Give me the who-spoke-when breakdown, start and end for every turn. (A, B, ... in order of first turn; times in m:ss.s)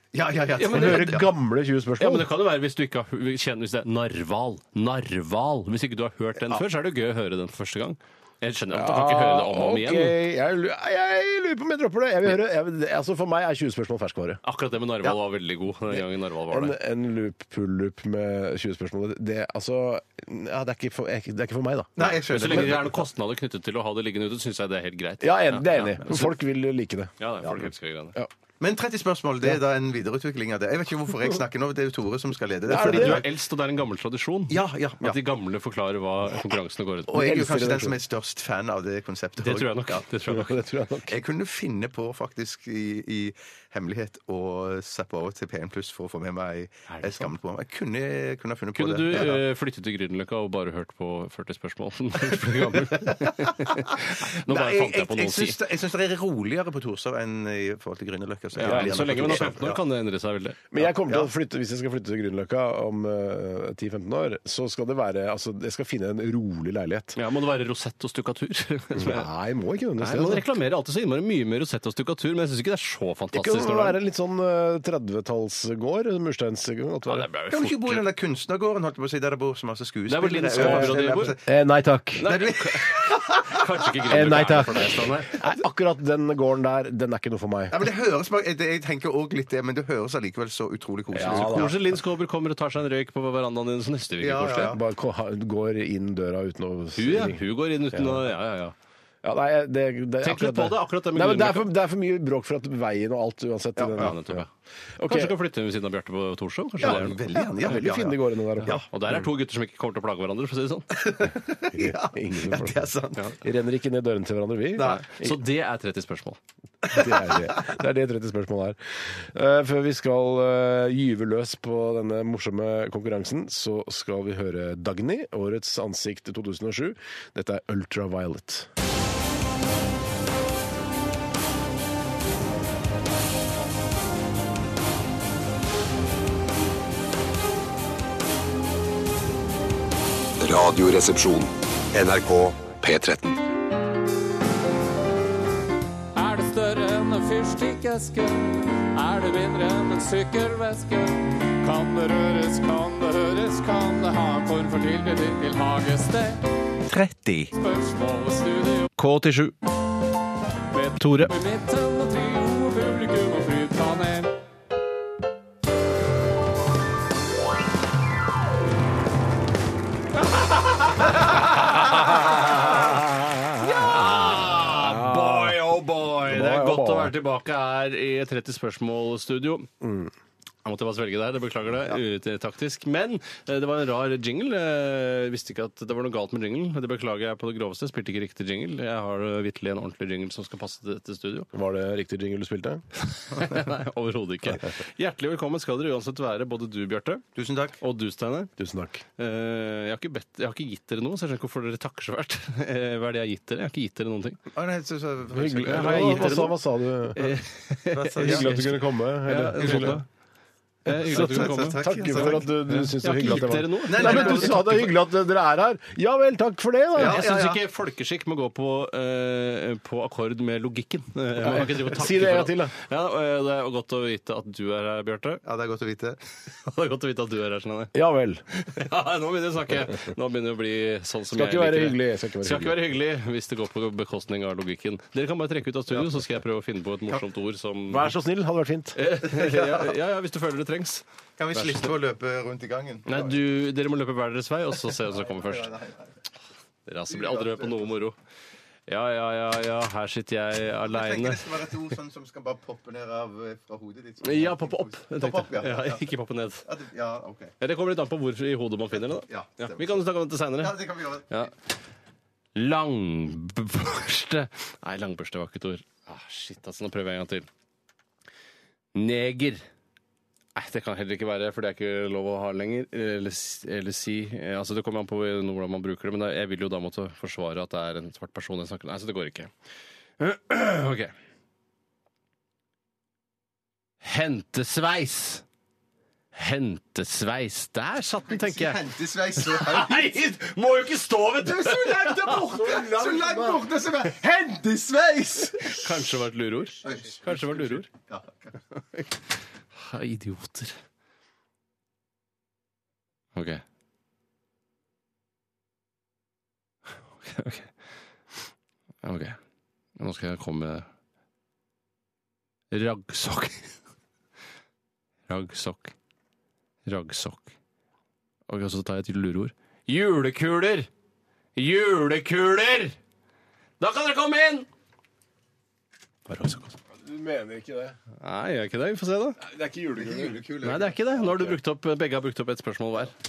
0:00.1-0:01.3 A
0:00.6-0:01.2 B
0:00.7-0:02.3 C
0:02.0-0:10.2 B
0:08.7-0:14.4 C
0:14.4-0:16.8 B
0:16.0-0:22.9 C
0:22.0-0:22.9 A
0:22.3-0:26.3 B
0:25.2-0:28.3 C
0:27.2-0:28.2 B
0:28.6-0:33.3 A
0:32.7-0:33.2 C
0:32.7-0:37.2 B
0:34.5-0:35.2 A
0:37.1-0:40.0 A
0:37.1-0:38.0 C
0:39.4-0:40.6 B
0:40.3-0:41.2 C
0:41.1-0:49.4 A
0:46.9-0:47.3 B
0:48.8-0:55.6 B
0:52.9-0:53.5 A
0:54.5-0:59.8 A
0:58.6-1:00.7 B
0:58.6-0:59.5 C
1:00.7-1:07.2 C
1:01.0-1:01.3 A
1:07.2-1:09.3 B
1:08.9-1:10.6 C
1:10.0-1:14.0 B
1:13.3-1:17.3 C
1:17.1-1:18.0 B
1:17.5-1:21.5 A
1:20.1-1:21.4 B
1:20.6-1:22.3 C
1:22.2-1:25.4 B
1:22.2-1:24.7 A
1:24.1-1:27.8 C
1:27.7-1:31.8 A
1:31.1-1:31.9 C
1:31.2-1:34.8 B
1:34.2-1:34.8 A
1:34.6-1:38.3 C
1:37.0-1:38.8 B
1:39.2-1:44.4 C
1:40.2-1:41.7 B
1:43.8-1:44.2 A
1:44.0-1:44.5 B
1:45.0-1:45.3 C
1:45.1-1:47.2 B
1:46.8-1:48.9 A
1:46.8-1:49.2 C
1:48.6-1:51.0 B
1:50.9-1:53.3 A
1:51.7-1:55.4 C
1:54.8-1:55.0 A
1:54.8-1:56.4 B
1:56.9-1:57.6 A
1:56.9-2:08.7 C
2:20.4-2:23.4 D
2:26.2-2:36.4 E
2:36.9-2:37.5 A
2:37.6-2:38.9 E
2:39.0-2:39.6 B
2:40.7-2:44.3 E
2:41.0-2:41.3 B
2:50.9-2:53.0 B
2:51.9-2:55.6 C
2:53.6-2:59.7 B
2:56.2-2:57.2 C
2:59.8-3:00.1 C
3:00.6-3:11.5 B
3:11.5-3:12.8 C
3:13.1-3:17.3 B
3:17.4-3:17.8 A
3:17.8-3:18.5 B
3:18.6-3:19.0 C
3:19.2-3:24.4 B
3:24.5-3:26.5 A
3:25.3-3:27.3 C
3:25.6-3:26.6 B
3:27.1-3:30.1 B
3:27.9-3:28.6 A
3:28.2-3:30.0 C
3:29.6-3:30.0 A
3:30.9-3:35.0 B
3:31.0-3:37.2 C
3:31.0-3:32.5 A
3:33.9-3:34.6 A
3:37.0-3:37.6 A
3:37.0-3:45.4 B
3:41.4-3:42.8 C
3:45.4-3:46.2 A
3:46.5-3:47.9 B
3:47.9-3:48.4 C
3:48.5-3:58.1 B
3:51.3-3:52.8 C
3:57.9-3:59.0 C
3:59.0-4:01.9 B
3:59.3-3:59.9 A
4:01.4-4:03.3 A
4:03.1-4:05.8 B
4:05.1-4:06.1 A
4:06.9-4:08.2 B
4:07.1-4:07.9 A
4:08.9-4:11.7 B
4:10.9-4:16.1 A
4:14.2-4:16.7 B
4:16.6-4:17.5 A
4:17.6-4:21.5 B
4:19.1-4:21.5 A
4:22.6-4:27.5 B
4:29.0-4:29.6 B
4:30.6-4:39.5 B
4:40.2-4:41.1 B
4:44.0-4:45.4 B
4:46.3-4:48.8 B
4:48.2-4:50.2 A
4:49.4-4:52.4 B
4:51.4-4:55.9 A
4:52.0-4:53.7 C
4:55.6-4:57.9 B
4:56.8-4:58.5 A
4:59.8-5:00.8 B
5:03.4-5:03.6 B
5:07.2-5:07.7 B
5:09.0-5:09.4 B
5:10.0-5:10.9 B
5:12.7-5:13.8 B
5:15.3-5:15.9 B
5:16.9-5:17.5 B
5:18.5-5:20.9 B
5:21.6-5:23.0 B
5:23.8-5:24.7 B
5:26.3-5:26.8 B
5:26.9-5:28.0 C
5:28.2-5:29.4 B
5:29.4-5:30.4 C
5:30.0-5:31.1 A
5:30.6-5:33.1 B